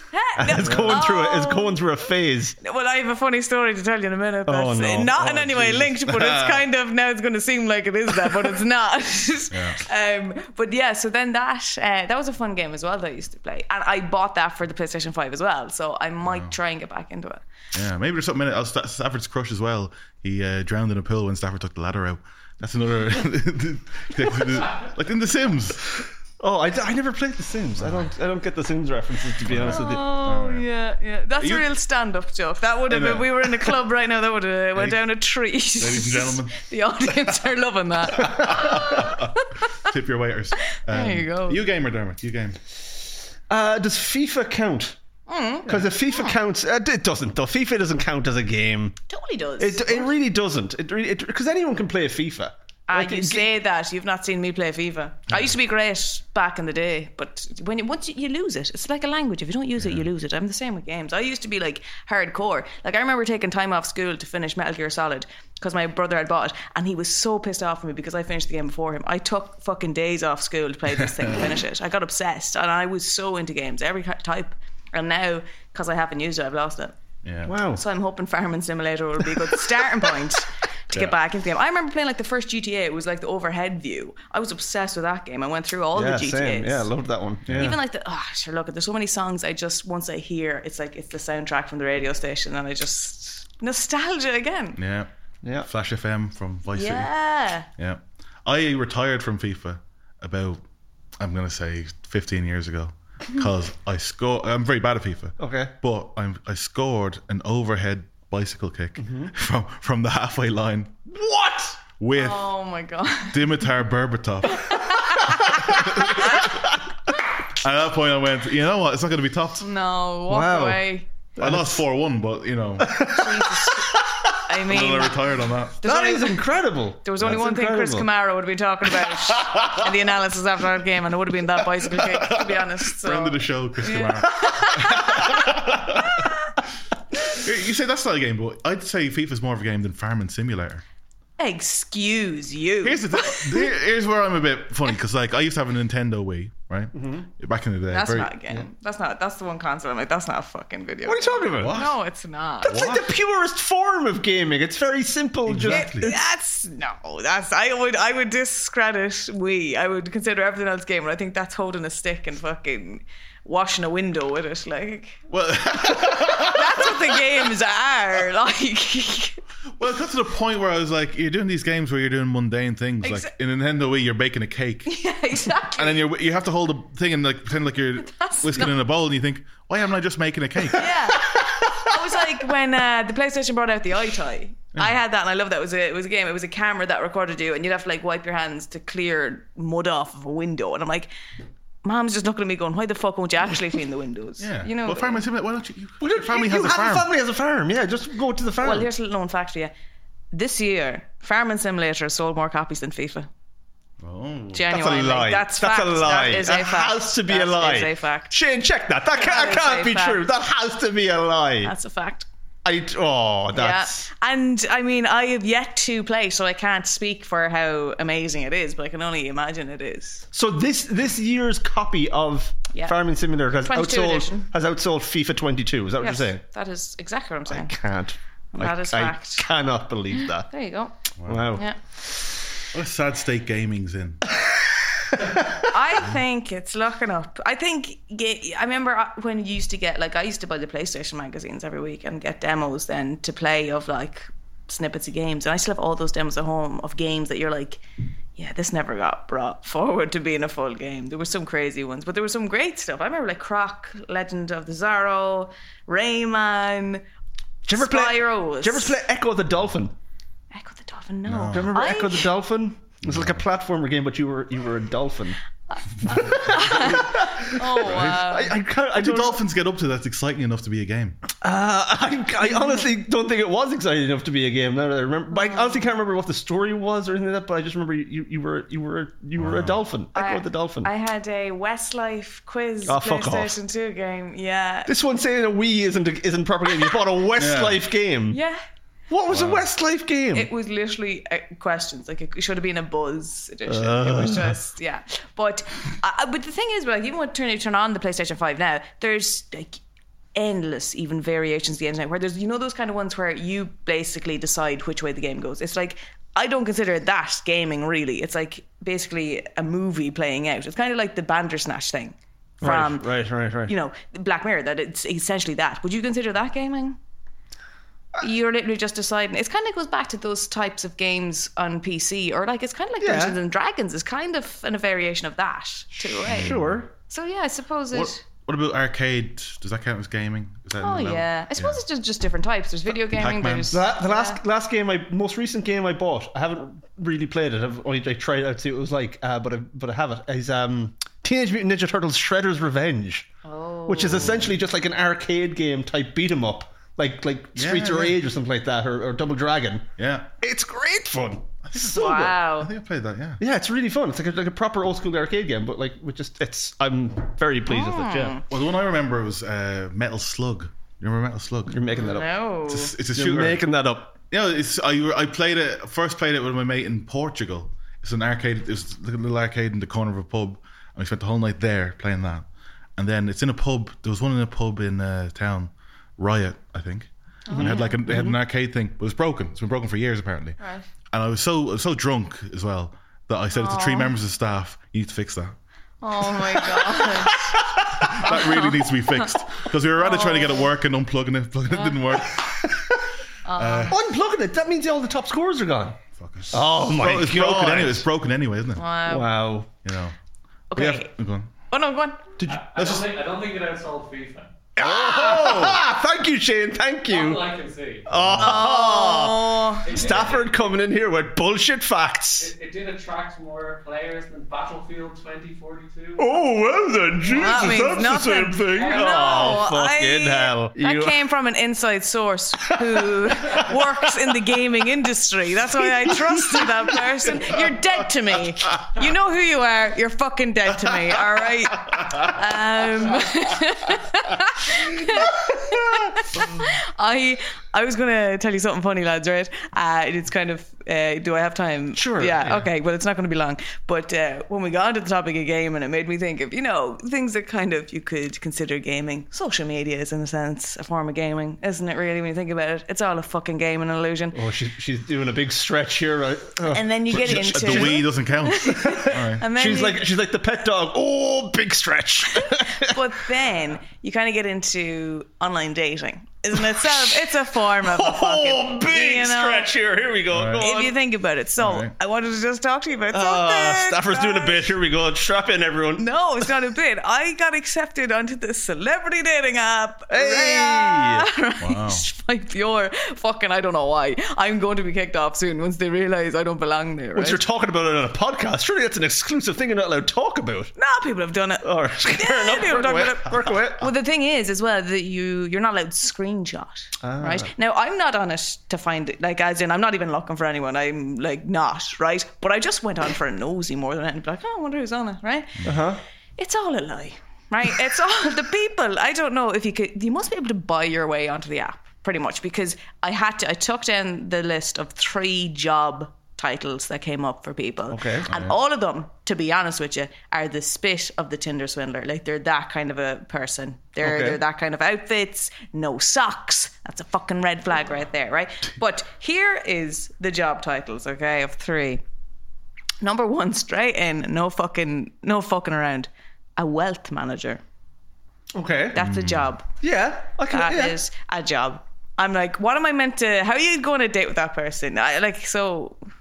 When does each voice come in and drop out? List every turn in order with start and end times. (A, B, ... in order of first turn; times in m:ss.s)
0:00.1-0:01.8 A
0:00.4-0:02.5 B
0:00.6-0:01.0 C
0:02.6-0:17.4 A
0:04.4-0:06.0 B
0:06.1-0:06.6 C
0:09.5-0:09.8 C
0:16.2-0:16.5 C
0:17.7-0:25.9 C
0:26.4-0:30.1 B
0:27.8-0:28.0 C
0:29.4-0:30.6 C
0:29.6-0:39.9 A
0:31.4-0:31.6 C
0:32.9-0:33.8 C
0:34.8-0:35.0 C
0:35.7-0:37.4 C
0:38.1-0:42.6 C
0:40.8-0:41.6 A
0:43.5-0:45.0 B
0:45.3-0:46.4 A
0:45.6-0:49.0 B
0:49.1-0:50.1 A
0:49.6-0:53.4 B
0:52.9-1:16.9 A
0:59.8-1:00.0 C
1:17.2-1:17.5 C
1:17.4-1:17.8 B
1:17.7-1:26.9 A
1:25.9-1:27.8 B
1:27.4-1:27.8 C
1:27.5-1:34.8 A
1:34.8-1:35.1 C
1:35.4-1:35.7 B
1:35.6-1:37.1 C
1:36.7-1:37.7 A
1:37.8-1:40.6 C
1:41.2-1:50.9 C
1:45.4-1:45.7 B
1:49.0-1:49.3 B
1:51.1-1:51.8 B
1:52.0-1:52.5 C
1:52.1-1:53.6 A
1:53.3-1:56.7 C
1:54.4-1:56.5 A
1:57.5-1:59.6 C
1:59.6-2:01.1 A
2:00.3-2:00.8 B
2:01.4-2:01.8 B
2:01.4-2:03.0 C
2:02.8-2:04.4 B
2:03.1-2:05.2 A
2:04.7-2:05.8 C
2:05.8-2:06.4 A
2:05.8-2:08.1 B
2:07.0-2:16.5 A
2:11.9-2:16.3 C
2:17.2-2:20.8 C
2:21.4-2:23.7 A
2:22.8-2:28.3 C
2:26.9-2:27.3 B
2:27.9-2:32.8 A
2:31.0-2:31.8 B
2:31.6-2:32.0 C
2:32.6-2:36.2 B
2:32.6-2:33.1 C
2:35.5-2:36.1 C
2:35.7-2:45.2 A
2:45.3-2:47.2 C
2:46.4-2:49.4 A
2:49.8-2:54.9 C
2:53.0-2:53.3 A
2:54.9-2:56.0 A
2:55.7-3:01.2 C
2:58.0-2:58.7 A
3:00.7-3:11.1 A
3:11.8-3:15.2 A
3:14.4-3:17.1 C
3:16.0-3:18.9 B
3:18.6-3:19.7 A
3:20.3-3:23.3 A
3:24.0-3:24.6 C
3:24.5-3:28.3 A
3:24.7-3:31.7 B
3:29.1-3:30.2 A
3:31.6-3:32.3 A
3:32.6-3:34.1 B
3:33.5-3:40.2 A
3:40.3-3:46.4 B
3:42.7-3:43.0 A
3:43.6-3:44.5 A
3:46.0-3:47.8 A
3:47.5-3:50.5 B
3:48.5-3:49.5 A
3:50.2-3:51.0 A
3:51.2-3:51.5 C
3:51.2-3:51.6 B
3:52.7-3:54.2 C
3:55.1-3:55.7 B
3:55.6-4:07.8 A
4:08.4-4:17.0 A
4:17.6-4:19.9 B
4:17.7-4:19.0 A
4:20.5-4:22.3 A
4:21.2-4:21.7 C
4:21.5-4:25.4 B
4:23.0-4:23.4 C
4:25.8-4:28.5 A
4:26.1-4:29.4 B
4:26.1-4:26.9 C
4:27.8-4:28.2 C
4:28.9-4:31.2 C
4:31.4-4:40.9 B
4:32.5-4:32.8 A
4:35.3-4:35.9 A
4:39.4-4:39.8 C
4:40.1-4:44.9 A
4:42.9-4:43.6 B
4:44.9-4:48.4 B
4:47.4-4:47.8 C
4:48.3-4:48.6 A
4:49.1-4:50.5 B
4:49.3-4:49.6 C
4:50.3-4:59.8 A
4:53.7-4:54.5 B
5:00.3-5:13.1 A
5:12.6-5:13.7 B
5:13.6-5:17.0 A
5:18.2-5:28.2 A
5:23.0-5:23.4 B
5:26.1-5:26.9 B
5:26.2-5:26.8 C
5:27.9-5:31.8 C
5:30.8-5:34.4 A
5:33.1-5:33.8 C
5:33.7-5:43.3 B
5:43.4-5:44.4 A
5:43.9-5:49.9 B
5:47.6-5:48.2 C
5:50.0-5:50.3 C
5:50.4-5:52.3 B
5:51.6-5:53.4 C
5:51.8-5:52.7 A
5:53.4-5:58.4 B
5:57.7-5:58.4 A
5:58.5-6:01.8 C
6:01.7-6:02.3 B
6:02.0-6:02.9 A
6:02.7-6:03.6 C
6:03.1-6:04.1 B
6:04.3-6:12.5 C
6:13.0-6:20.6 C
6:17.5-6:18.0 A
6:17.5-6:18.4 B
6:20.6-6:20.8 A
6:21.1-6:25.5 C
6:23.5-6:24.1 A
6:26.0-6:27.6 A
6:26.8-6:28.3 B
6:27.9-6:32.8 C
6:28.2-6:29.3 A
6:30.0-6:30.7 A
6:31.7-6:32.0 A
6:32.4-6:33.0 B
6:33.4-6:34.0 A
6:33.5-6:34.0 C
6:33.9-6:36.0 B
6:36.2-6:38.8 C
6:36.5-6:38.0 B
6:38.8-6:39.3 A
6:39.1-6:39.7 B
6:39.8-6:40.1 C
6:40.7-6:41.1 A
6:40.8-6:41.5 C
6:41.7-6:42.3 A
6:42.4-6:42.6 B
6:42.4-6:44.5 D
6:42.8-6:43.1 C
6:44.8-6:47.5 B
6:44.8-6:45.8 C
6:47.1-6:48.1 D
6:48.0-6:52.5 B
6:48.1-6:48.7 C
6:48.4-6:49.9 A
6:49.8-6:50.7 D
6:52.4-6:56.4 D
6:56.2-7:01.2 B
6:57.3-6:57.9 D
6:57.3-7:34.4 A
6:58.7-6:59.6 D
7:02.7-7:04.1 B
7:05.7-7:07.3 B
7:11.9-7:12.2 C
7:15.4-7:15.9 B
7:22.0-7:22.7 B
7:34.3-7:38.0 B
7:36.7-7:40.0 A
7:37.1-7:39.4 C
7:38.6-7:43.0 B
7:42.5-7:49.7 A
7:46.5-7:50.9 B
7:50.3-7:50.6 C
7:50.6-7:54.7 A
7:51.6-7:51.9 C
7:53.1-7:56.5 B
7:56.0-8:07.4 A
8:00.1-8:01.2 B
8:01.6-8:02.0 C
8:07.1-8:10.7 B
8:10.8-8:25.6 A
8:11.6-8:13.9 B
8:17.0-8:17.5 B
8:25.6-8:26.0 B
8:26.4-8:52.0 A
8:37.9-8:38.3 B
8:44.0-8:44.4 B
8:53.0-8:57.6 A
8:58.5-8:59.0 B
8:58.9-8:59.7 A
8:59.0-8:59.5 C
8:59.8-9:01.0 B
9:00.5-9:06.0 A